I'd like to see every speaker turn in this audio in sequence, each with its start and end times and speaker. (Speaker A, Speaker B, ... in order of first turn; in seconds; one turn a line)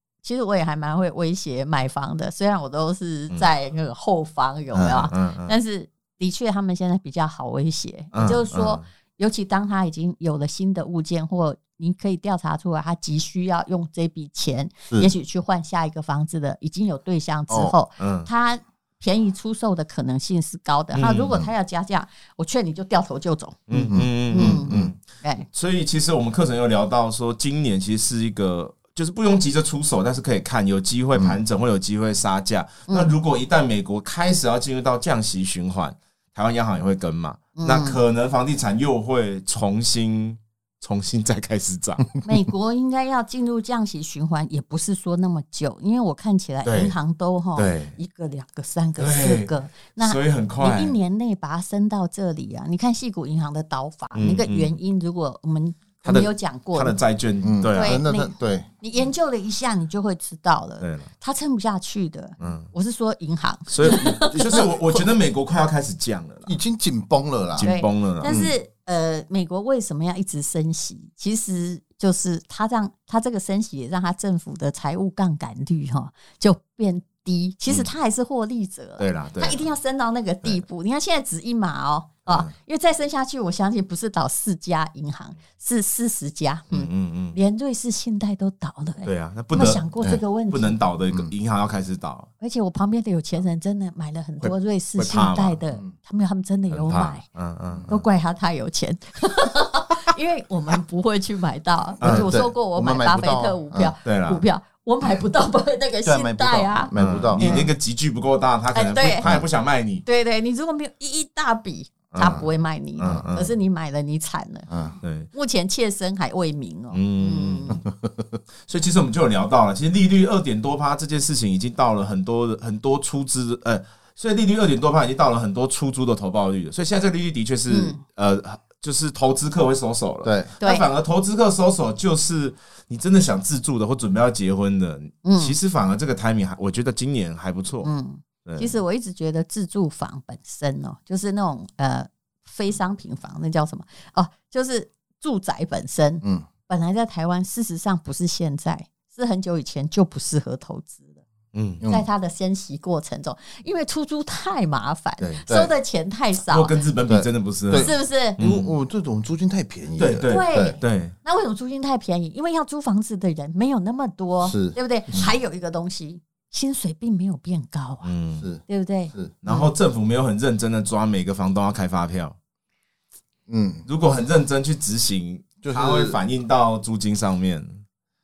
Speaker A: 0.2-24.7
Speaker B: 4.7-5.1
Speaker C: 5.1-5.5
Speaker C: 8.1-8.8
Speaker B: 17.5-17.8
Speaker C: 18.0-18.3
Speaker C: 20.9-21.4
Speaker C: 23.7-25.0
Speaker B: 23.7-24.9
Speaker C: 25.5-42.1
Speaker A: 32.9-33.1
Speaker A: 37.5-38.0
Speaker A: 42.2-57.0
Speaker C: 46.6-46.9
Speaker C: 47.5-48.0
Speaker C: 49.0-51.0
Speaker C: 54.1-54.8
Speaker C: 56.0-58.0
Speaker B: 57.4-58.7
Speaker A: 57.7-65.0
Speaker C: 60.8-61.1
Speaker C: 62.4-62.7
Speaker C: 63.7-66.5
Speaker B: 66.5-67.7
Speaker C: 67.6-68.3
Speaker A: 67.6-90.8
Speaker B: 68.2-68.5
Speaker C: 79.0-79.6
Speaker C: 86.7-87.4
Speaker C: 89.0-89.9
Speaker C: 90.5-92.3
Speaker A: 92.4-97.2
Speaker C: 94.4-95.6
Speaker C: 96.7-97.9
Speaker B: 97.7-98.0
Speaker A: 97.9-107.7
Speaker C: 102.0-102.3
Speaker B: 102.0-103.9
Speaker C: 104.0-104.4
Speaker B: 106.0-107.6
Speaker C: 106.9-110.0
Speaker A: 108.7-109.3
Speaker A: 110.0-114.7
Speaker C: 112.1-112.4
Speaker C: 113.0-113.5
Speaker B: 114.7-115.0
Speaker C: 115.0-115.3
Speaker A: 115.3-117.8
Speaker C: 116.9-117.8
Speaker B: 118.0-118.4
Speaker C: 118.7-137.9
Speaker A: 127.7-128.0
Speaker B: 130.2-130.5
Speaker A: 130.6-130.9
Speaker A: 135.2-135.5
Speaker A: 137.8-151.2
Speaker C: 138.4-138.8
Speaker B: 146.2-146.5
Speaker C: 151.5-151.8
Speaker B: 151.8-152.1
Speaker A: 151.8-156.8
Speaker B: 155.4-155.7
Speaker C: 156.5-158.7
Speaker B: 157.1-160.8
Speaker A: 157.7-158.4
Speaker C: 160.0-161.1
Speaker A: 160.3-168.1
Speaker B: 164.4-165.3
Speaker C: 168.0-168.4
Speaker B: 168.4-169.3
Speaker A: 168.7-169.7
Speaker C: 169.4-172.3
Speaker B: 173.5-173.9
Speaker C: 173.9-177.8
Speaker B: 175.6-176.2